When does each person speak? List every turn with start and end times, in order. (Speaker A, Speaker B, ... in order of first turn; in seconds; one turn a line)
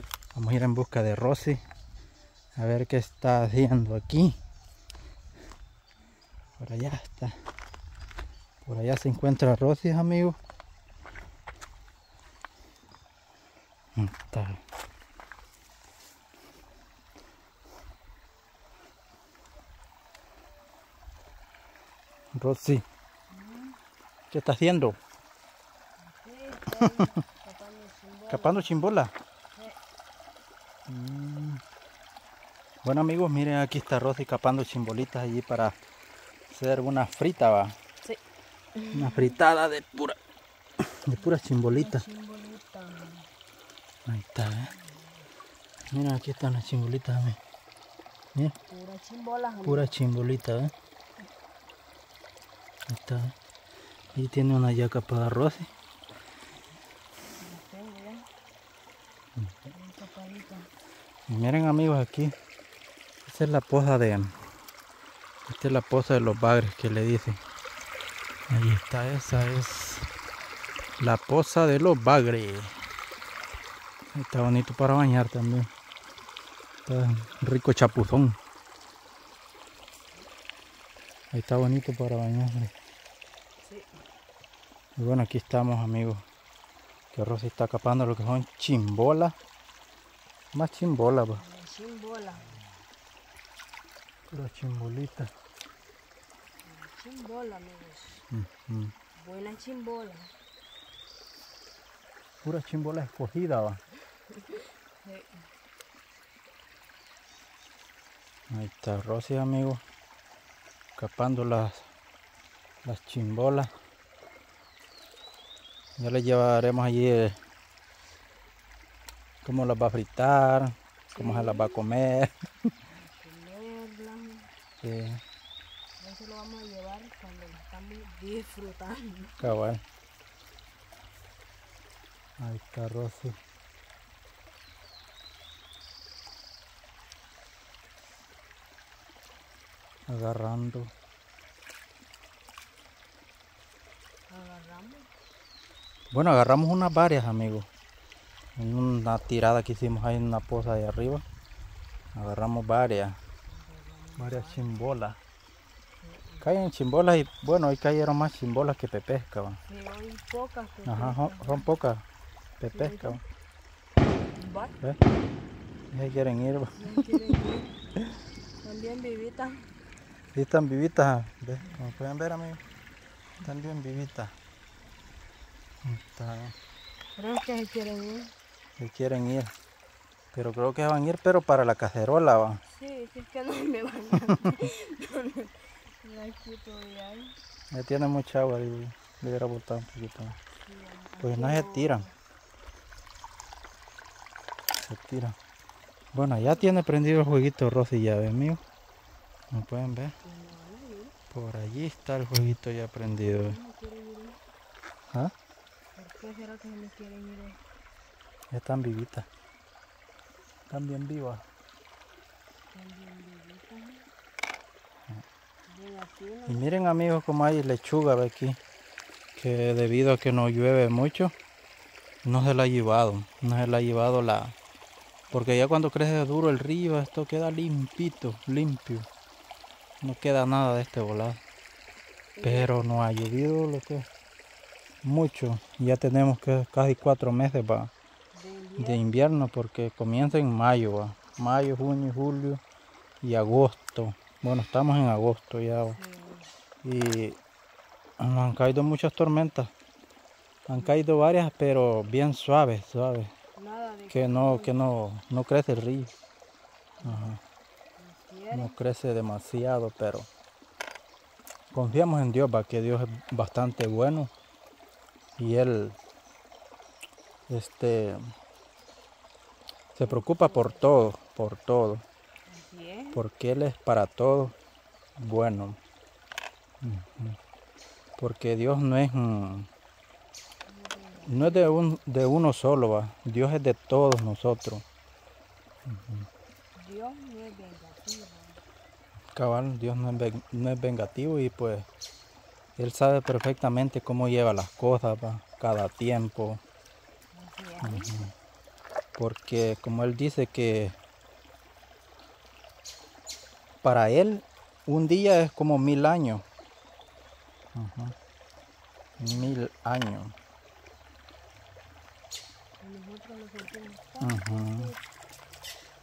Speaker A: 0.3-1.6
Speaker A: 2.6-4.4
Speaker A: 6.6-7.3
Speaker A: 8.7-10.4
Speaker A: 14.0-14.6
Speaker A: 22.4-22.8
Speaker B: 23.3-23.8
Speaker A: 24.3-25.0
Speaker B: 26.0-28.7
Speaker A: 26.7-27.2
Speaker A: 28.3-29.1
Speaker B: 29.5-29.8
Speaker A: 30.9-31.6
Speaker A: 32.8-35.8
Speaker A: 36.5-37.8
Speaker B: 38.7-39.4
Speaker A: 38.9-40.2
Speaker A: 40.8-42.0
Speaker B: 41.2-43.3
Speaker A: 44.1-44.7
Speaker B: 44.8-45.3
Speaker A: 45.9-47.4
Speaker B: 48.7-50.0
Speaker A: 49.6-50.7
Speaker A: 52.9-53.4
Speaker A: 54.1-55.7
Speaker B: 57.3-58.3
Speaker B: 59.7-60.7
Speaker A: 61.3-62.4
Speaker A: 63.3-64.4
Speaker A: 65.5-67.4
Speaker A: 68.5-70.1
Speaker A: 71.0-72.8
Speaker A: 74.1-75.7
Speaker A: 76.9-78.4
Speaker A: 81.3-82.7
Speaker B: 83.6-84.0
Speaker A: 85.0-86.2
Speaker A: 87.1-89.4
Speaker A: 90.5-91.4
Speaker B: 91.4-92.6
Speaker A: 94.3-95.3
Speaker B: 96.6-98.3
Speaker A: 98.3-98.9
Speaker B: 99.2-100.4
Speaker A: 102.4-103.8
Speaker B: 104.3-105.5
Speaker A: 108.5-109.8
Speaker A: 111.0-111.9
Speaker A: 112.8-113.7
Speaker A: 116.0-117.4
Speaker A: 119.4-122.5
Speaker B: 121.2-121.8
Speaker B: 122.9-124.5
Speaker A: 124.8-125.2
Speaker B: 126.0-129.5
Speaker A: 129.4-129.8
Speaker A: 132.4-133.4
Speaker A: 140.1-140.9
Speaker B: 144.3-145.1
Speaker A: 146.1-147.7
Speaker A: 148.6-151.2
Speaker A: 152.1-153.2
Speaker B: 153.5-154.7
Speaker A: 154.2-155.2
Speaker B: 156.0-156.5
Speaker A: 156.4-159.6
Speaker B: 159.7-161.7
Speaker A: 160.9-162.0
Speaker A: 162.6-163.2
Speaker B: 162.7-163.2
Speaker B: 164.4-164.8
Speaker A: 165.9-167.1
Speaker B: 166.8-167.7
Speaker B: 168.6-169.7
Speaker A: 170.3-172.6
Speaker A: 173.4-174.3
Speaker A: 175.8-176.5
Speaker B: 177.2-178.3
Speaker A: 178.8-179.5
Speaker A: 180.3-182.6
Speaker B: 182.7-187.4
Speaker A: 187.7-190.4
Speaker B: 190.7-192.1
Speaker A: 191.2-192.1
Speaker A: 194.8-195.4
Speaker A: 196.1-198.6
Speaker B: 196.3-196.8
Speaker A: 199.5-200.2
Speaker B: 200.2-201.2
Speaker A: 201.3-203.6
Speaker B: 203.3-204.4
Speaker B: 205.9-207.6
Speaker A: 208.5-209.3
Speaker A: 210.7-211.4
Speaker B: 212.7-214.1
Speaker B: 215.7-216.6
Speaker A: 216.5-218.6
Speaker A: 219.4-221.3
Speaker A: 222.2-224.6
Speaker A: 225.3-229.1
Speaker A: 230.0-231.4
Speaker B: 232.4-232.7
Speaker A: 232.4-234.1
Speaker A: 235.0-237.9
Speaker B: 238.3-239.1
Speaker A: 238.8-242.6
Speaker A: 243.2-246.0
Speaker B: 245.9-246.5
Speaker A: 246.8-247.4
Speaker A: 248.2-249.7
Speaker A: 250.7-253.3
Speaker B: 253.6-254.8
Speaker A: 254.1-256.1
Speaker B: 257.0-257.3
Speaker A: 257.0-257.4
Speaker B: 258.0-258.8
Speaker A: 258.5-260.3
Speaker A: 261.7-264.3
Speaker A: 265.4-266.0
Speaker A: 267.5-268.2
Speaker A: 269.9-272.1
Speaker B: 270.1-270.8
Speaker B: 272.5-273.2
Speaker A: 273.1-274.6
Speaker A: 275.2-275.8
Speaker A: 276.8-277.4
Speaker A: 278.2-279.7
Speaker B: 280.7-281.8
Speaker A: 281.3-284.9
Speaker A: 285.9-286.3
Speaker B: 286.8-288.6
Speaker A: 289.3-291.9
Speaker A: 292.8-296.6
Speaker B: 297.3-298.1
Speaker A: 297.8-298.3
Speaker A: 299.2-301.0
Speaker A: 303.8-306.4
Speaker A: 307.7-308.1
Speaker A: 309.2-310.3
Speaker B: 309.2-309.6
Speaker B: 312.8-315.0
Speaker A: 314.2-314.9